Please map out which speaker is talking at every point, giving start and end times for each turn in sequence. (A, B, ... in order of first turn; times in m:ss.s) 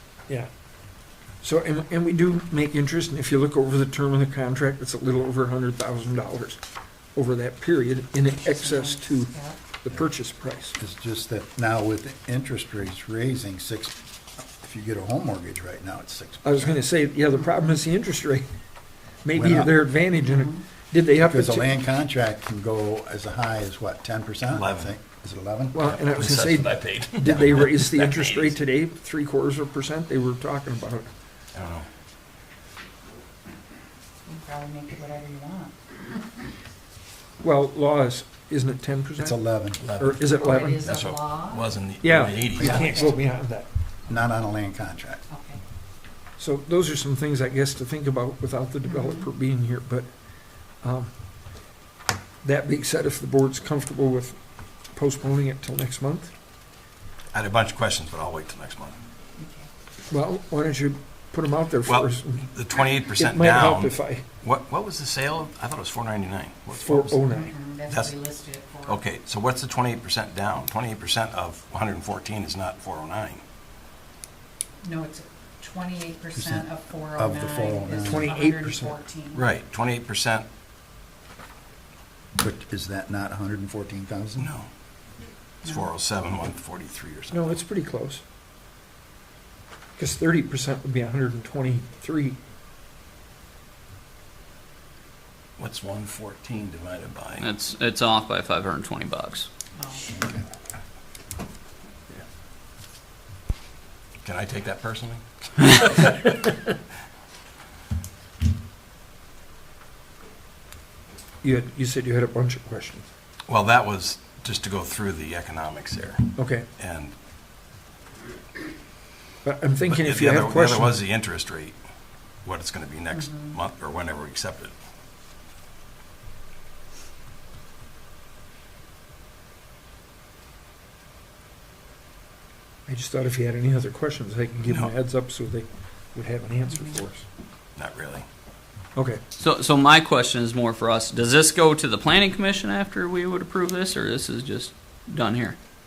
0:01.4-0:06.6 A
0:07.2-0:10.8 A
0:08.4-0:09.6 B
0:10.8-0:16.7 C
0:16.4-0:18.5 A
0:19.2-0:21.8 A
0:19.3-0:19.8 C
0:20.2-0:20.6 B
0:21.2-0:25.8 C
0:24.5-0:24.9 D
0:25.7-0:31.1 A
0:25.9-0:28.5 D
0:27.2-0:27.6 C
0:31.5-0:31.9 D
0:34.3-0:36.0 B
0:37.4-0:39.4 A
0:39.2-0:39.8 C
0:39.8-0:43.0 D
0:40.0-0:40.9 A
0:40.3-0:41.7 B
0:42.0-0:43.7 A
0:42.4-0:43.2 B
0:42.6-0:43.1 C
0:44.1-0:45.2 C
0:45.3-0:45.6 B
0:46.4-0:50.1 A
0:48.8-0:49.3 B
0:50.8-0:51.1 A
0:52.4-0:54.4 A
0:54.9-0:56.3 A
0:57.3-0:59.0 D
0:59.4-0:59.7 B
1:00.1-1:04.2 A
1:01.9-1:07.2 D
1:06.7-1:07.6 A
1:07.3-1:09.0 B
1:08.9-1:13.4 D
1:14.8-1:19.4 B
1:16.4-1:18.3 C
1:18.0-1:19.0 A
1:19.3-1:20.5 D
1:22.4-1:24.5 C
1:24.4-1:24.7 D
1:25.6-1:25.9 B
1:25.6-1:27.5 D
1:27.3-1:28.2 A
1:30.0-1:32.4 A
1:35.6-1:37.4 D
1:37.4-1:39.5 E
1:39.8-1:40.1 B
1:40.1-1:40.4 C
1:44.2-1:46.2 D
1:51.4-1:53.1 A
1:53.5-1:57.1 D
1:56.4-1:56.7 A
1:59.4-2:01.0 A
1:59.9-2:01.8 D
2:02.4-2:04.8 D
2:03.1-2:03.6 B
2:12.9-2:17.3 A
2:17.8-2:18.2 D
2:19.0-2:19.2 A
2:19.4-2:25.6 E